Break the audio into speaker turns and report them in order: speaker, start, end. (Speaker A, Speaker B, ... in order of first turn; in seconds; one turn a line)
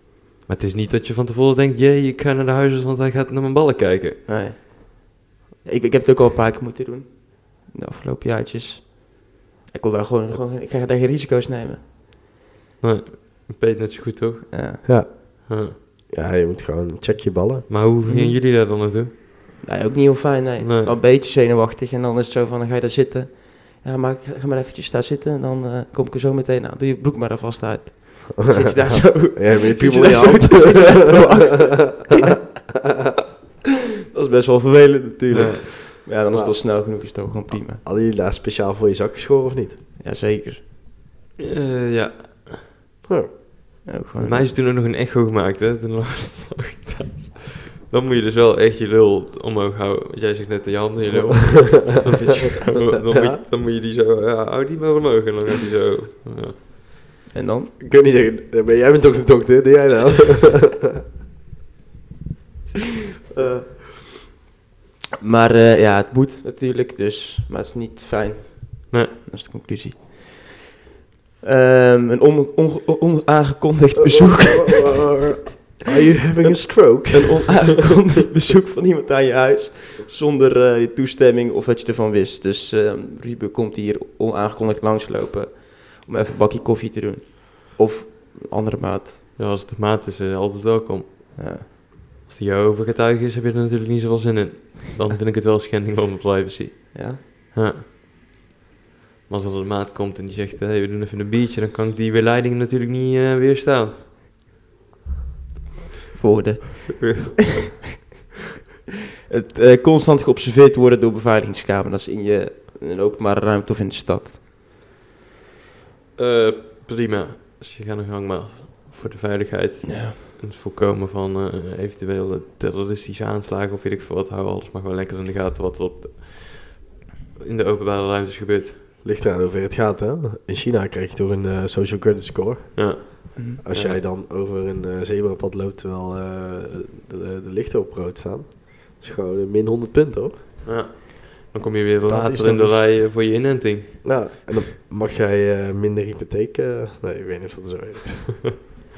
Speaker A: 0.5-4.2
Speaker B: 4.3-11.8
Speaker A: 12.8-14.8
Speaker B: 14.5-14.8
Speaker C: 14.8-15.1
Speaker A: 15.5-15.8
Speaker C: 15.7-17.7
Speaker A: 17.7-19.1
Speaker B: 18.1-18.4
Speaker B: 19.6-32.4
Speaker A: 20.6-20.9
Speaker C: 28.4-31.2
Speaker B: 34.1-37.8
Speaker A: 35.3-35.6
Speaker C: 36.3-36.6
Speaker C: 37.8-39.8
Speaker B: 40.0-40.6
Speaker A: 41.4-42.7
Speaker C: 43.1-43.8
Speaker B: 43.9-44.5
Speaker A: 44.2-56.6
Speaker C: 51.1-51.6
Speaker C: 53.1-53.4
Speaker B: 57.3-57.7
Speaker C: 57.8-60.8
Speaker B: 63.4-64.3
Speaker B: 65.2-70.7
Speaker B: 71.4-75.7
Speaker C: 74.0-77.7
Speaker B: 77.1-89.2
Speaker A: 89.4-97.9
Speaker B: 91.4-91.7
Speaker B: 96.9-97.2
Speaker A: 99.3-104.0
Speaker B: 106.1-107.3
Speaker A: 107.0-107.6
Speaker B: 109.3-114.4
Speaker A: 116.2-128.8
Speaker B: 119.9-120.2
Speaker C: 129.0-140.4
Speaker A: 132.8-134.0
Speaker B: 133.4-133.6
Speaker A: 140.7-144.0
Speaker B: 142.1-142.8
Speaker C: 144.0-148.6